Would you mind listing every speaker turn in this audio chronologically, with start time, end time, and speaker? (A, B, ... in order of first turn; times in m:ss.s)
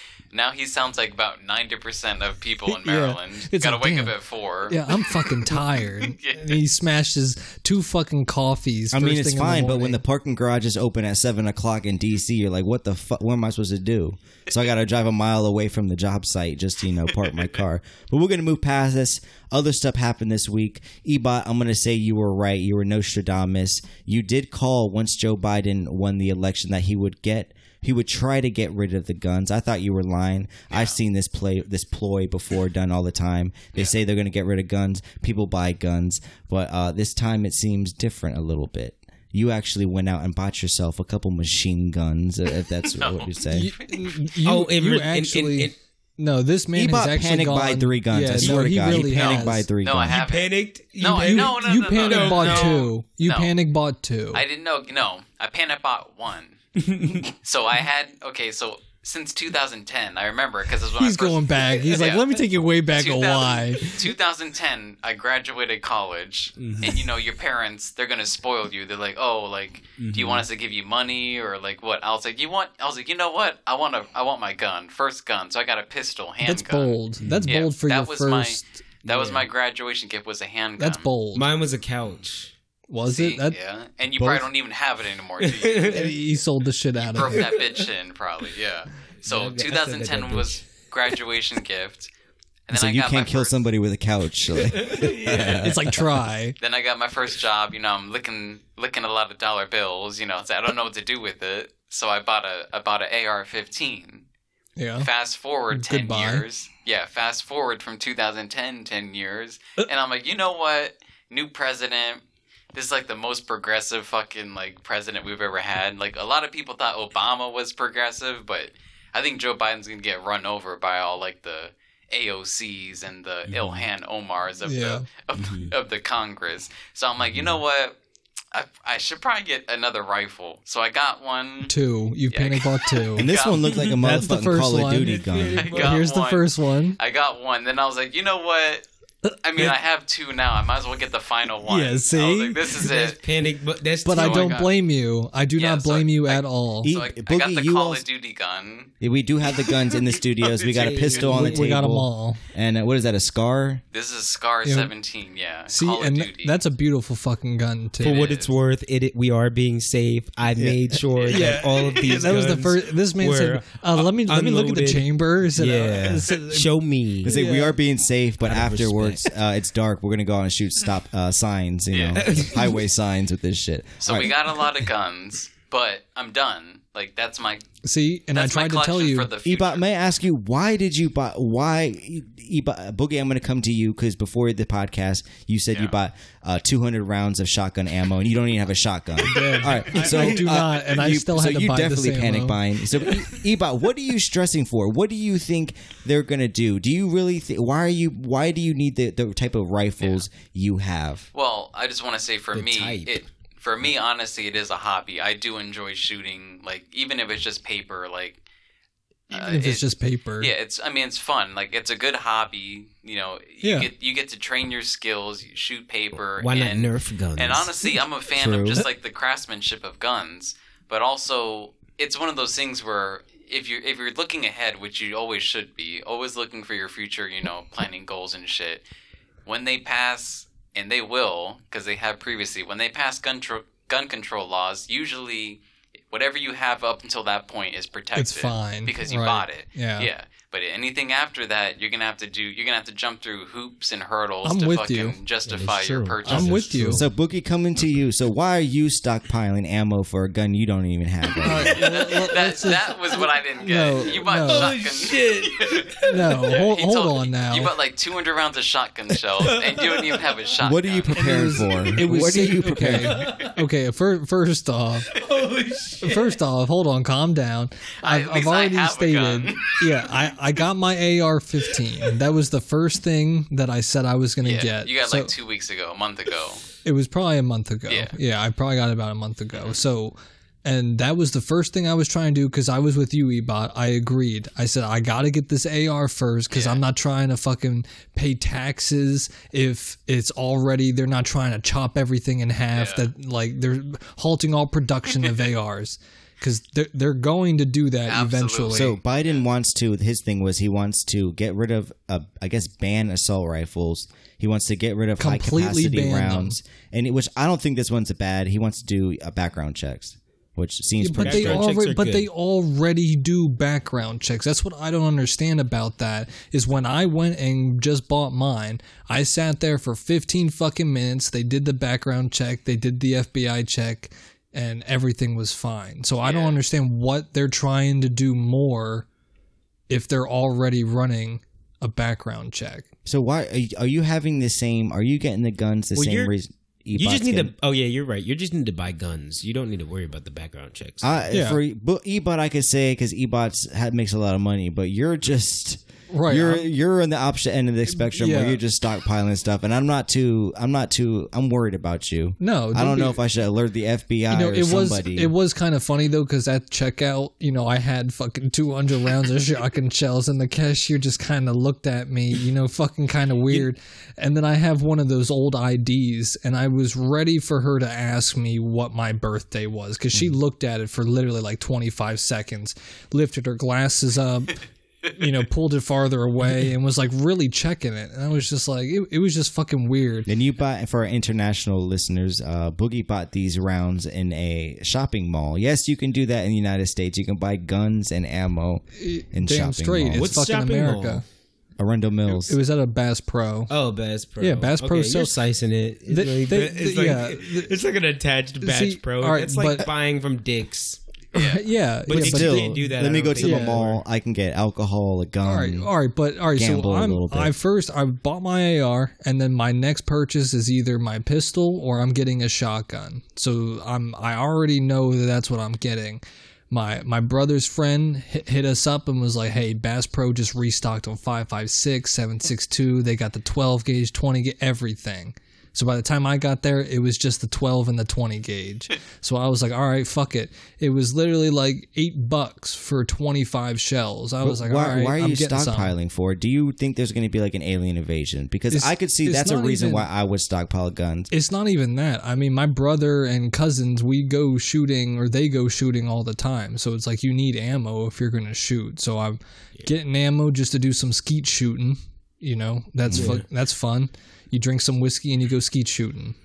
0:00.3-0:06.6 A
0:02.6-0:04.1 B
0:04.7-0:10.0 B
0:08.9-0:43.7 C
0:30.7-0:31.0 A
0:42.8-0:44.2 A
0:43.5-0:49.7 B
0:44.4-0:45.7 D
0:46.7-0:50.2 C
0:49.0-0:53.5 A
0:50.1-0:52.8 D
0:51.1-0:54.4 B
0:54.3-0:56.6 A
0:56.8-0:57.3 D
0:57.3-1:02.4 A
1:01.0-1:04.0 B
1:02.9-1:21.1 A
1:06.6-1:07.0 D
1:10.0-1:10.4 D
1:16.4-1:18.7 B
1:17.2-1:17.5 D
1:19.0-1:19.4 D
1:20.8-1:21.4 B
1:21.3-1:22.5 D
1:22.9-1:23.6 B
1:23.1-1:26.1 A
1:25.4-1:26.2 D
1:25.9-1:27.5 B
1:27.1-1:32.1 A
1:27.2-1:27.8 D
1:29.2-1:30.6 D
1:32.7-1:33.6 A
1:32.7-1:36.0 C
1:34.6-1:35.7 D
1:35.6-1:36.6 B
1:36.6-1:44.2 A
1:44.8-1:45.1 B
1:45.0-1:52.2 A
1:45.7-1:46.4 B
1:52.7-2:08.0 A
2:03.5-2:03.8 D
2:04.6-2:05.0 B
2:05.4-2:05.7 D
2:08.5-2:11.7 A
2:11.7-2:13.3 B
2:12.3-2:13.8 A
2:13.2-2:15.7 C
2:14.0-2:17.0 B
2:15.0-2:16.0 D
2:15.5-2:18.8 A
2:19.2-2:19.7 B
2:19.4-2:23.2 A
2:21.6-2:22.8 B
2:22.8-2:24.6 D
2:24.0-2:26.9 B
2:24.1-2:24.7 A
2:25.6-2:28.9 A
2:26.8-2:28.0 C
2:29.0-2:33.8 C
2:29.6-2:31.2 A
2:30.6-2:31.7 D
2:31.2-2:32.4 B
2:33.9-2:36.6 A
2:34.6-2:34.9 B
2:35.7-2:38.3 B
2:38.0-2:38.5 A
2:38.0-2:47.4 D
2:40.5-2:40.9 C
2:41.2-2:41.5 A
2:41.2-2:46.7 B
2:47.2-2:54.4 C
2:47.2-2:47.8 B
2:48.4-2:49.3 D
2:51.9-2:52.2 A
2:52.2-2:52.8 D
2:54.0-2:57.6 A
2:57.8-2:59.3 B
2:58.3-2:59.8 A
2:59.4-3:21.3 C
3:09.2-3:12.6 B
3:09.9-3:10.5 D
3:21.3-3:28.4 A
3:22.5-3:23.2 D
3:29.3-3:29.9 A
3:29.3-3:30.5 B
3:30.4-3:48.8 A
3:33.6-3:33.9 B
3:36.4-3:37.7 D
3:38.3-3:38.8 C
3:49.4-3:55.6 A
3:56.1-4:06.7 A
3:58.2-4:00.1 B
4:04.4-4:05.2 B
4:05.4-4:07.1 D
4:06.2-4:07.0 B
4:06.9-4:11.8 C
4:11.4-4:14.8 B
4:11.7-4:21.6 A
4:14.4-4:16.4 D
4:16.0-4:17.7 B
4:19.4-4:20.3 D
4:20.6-4:23.4 C
4:21.1-4:25.1 B
4:23.0-4:23.5 D
4:25.1-4:26.3 D
4:26.0-4:35.3 B
4:28.0-4:29.8 A
4:34.4-4:36.6 A
4:36.8-4:59.0 B
4:37.9-4:38.1 A
4:46.5-4:46.8 A
4:52.7-4:53.1 A
4:58.1-4:59.0 A
4:58.7-5:11.6 C
5:05.2-5:06.6 B
5:11.0-5:29.0 B
5:11.2-5:12.3 D
5:26.2-5:26.6 A
5:29.9-5:32.9 B
5:33.0-5:37.5 C
5:35.9-5:36.3 D
5:36.9-5:41.3 D
5:41.0-5:55.3 C
5:41.3-5:41.6 B
5:46.1-5:46.7 B
5:47.9-5:48.6 B
5:52.4-5:53.2 B
5:54.3-6:20.3 B
6:20.3-6:30.4 C
6:29.0-6:31.2 B
6:30.2-6:31.2 D
6:31.8-6:32.6 C
6:32.3-6:33.7 B
6:33.7-6:41.0 D
6:34.4-6:35.4 B
6:36.1-6:37.7 B
6:38.6-6:39.9 B
6:41.3-6:41.6 A
6:41.3-6:43.8 B
6:42.1-6:44.0 D
6:42.1-6:45.9 C
6:45.4-7:15.9 B
6:46.5-6:47.5 C
7:14.4-7:21.3 C
7:18.7-7:20.1 B
7:21.3-7:36.3 B
7:33.1-7:33.4 C
7:33.1-7:33.4 D